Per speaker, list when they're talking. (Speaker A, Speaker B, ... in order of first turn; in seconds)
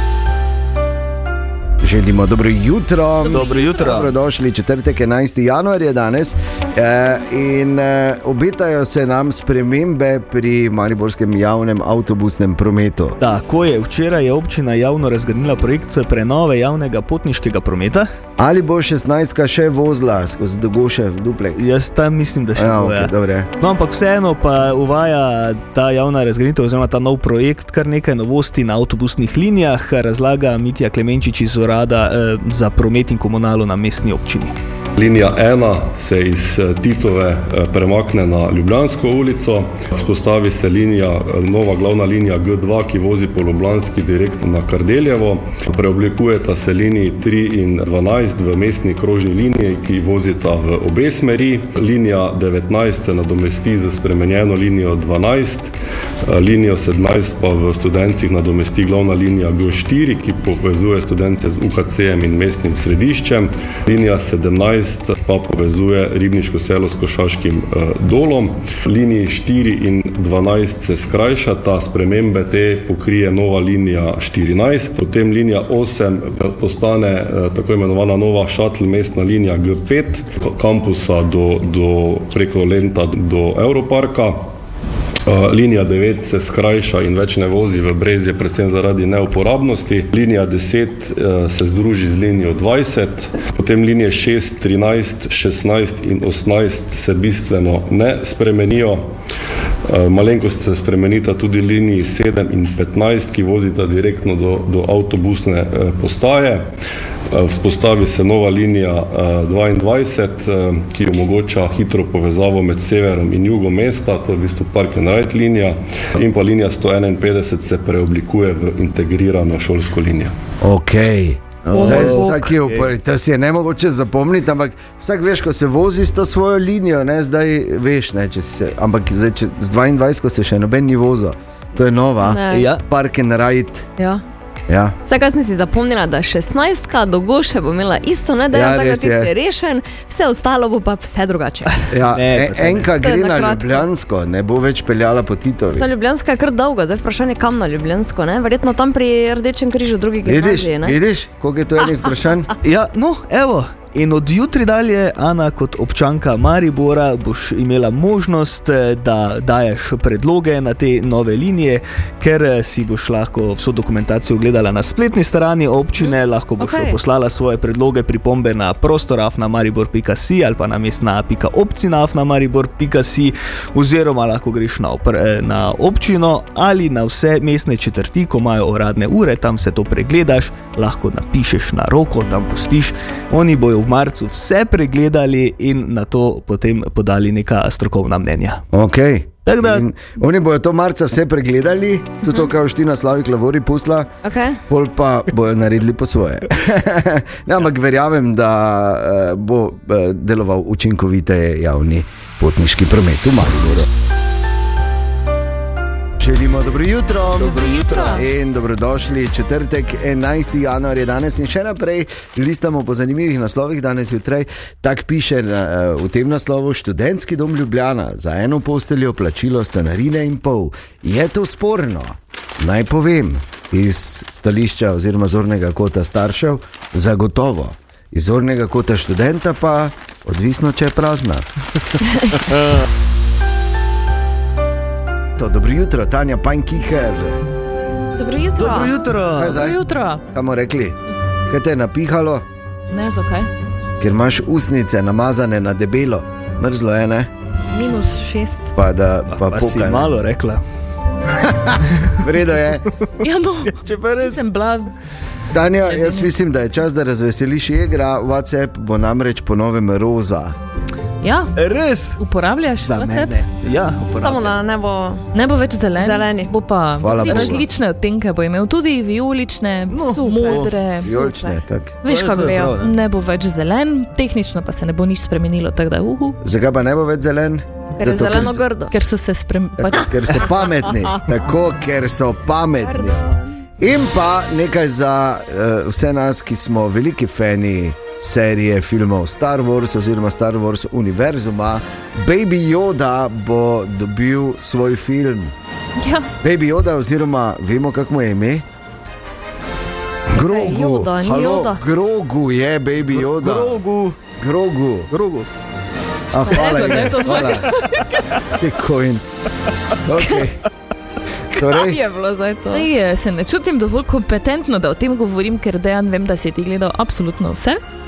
Speaker A: 1.8-13.2, 18.4-21.6, 22.6-23.5, 120.6-133.9, 134.7-134.9, 138.5-139.3, 141.9-145.9, 150.2-152.5, 188.7-194.1, 194.7-203.9, 206.2-231.5, 235.4-237.4, 239.3-242.4, 244.0-247.3, 248.7-250.2, 251.3-252.9, 255.5-260.6, 267.0-267.7, 271.0-271.9, 276.4-278.6, 279.8-283.3, 283.8-295.5, 296.4-298.6, 300.3-305.1, 306.3-307.7, 308.6-309.2, 310.0-310.6, 311.5-312.0
Speaker B: 3.2-4.1, 13.2-18.1, 21.6-34.5, 121.7-122.9, 132.5-132.8, 142.1-142.9, 152.6-188.6, 189.4-189.9, 232.5-232.8, 238.6-239.6, 249.3-250.6, 253.7-254.4, 261.6-262.2, 262.8-264.6, 269.9-270.7, 272.0-272.9, 303.1-304.2, 305.1-305.5
Speaker C: 35.0-55.7, 56.3-84.5, 85.2-99.1, 99.9-106.7, 107.3-120.3
Speaker D: 121.7-122.3, 132.2-132.7, 134.0-134.2, 135.0-141.8, 143.0-143.8, 145.7-151.0, 166.6-166.9, 194.2-194.6, 207.4-208.2, 238.2-238.9, 264.1-265.2, 266.0-266.5, 270.1-272.8, 278.0-278.9, 282.8-283.4, 300.3-301.8, 311.5-312.9
Speaker E: 239.4-240.2, 242.9-243.5, 247.7-248.7, 253.2-254.9, 255.9-256.2, 261.2-261.5, 262.2-263.4, 265.3-271.1, 272.8-276.4, 278.9-280.2, 296.0-296.3, 306.4-308.4, 312.6-317.8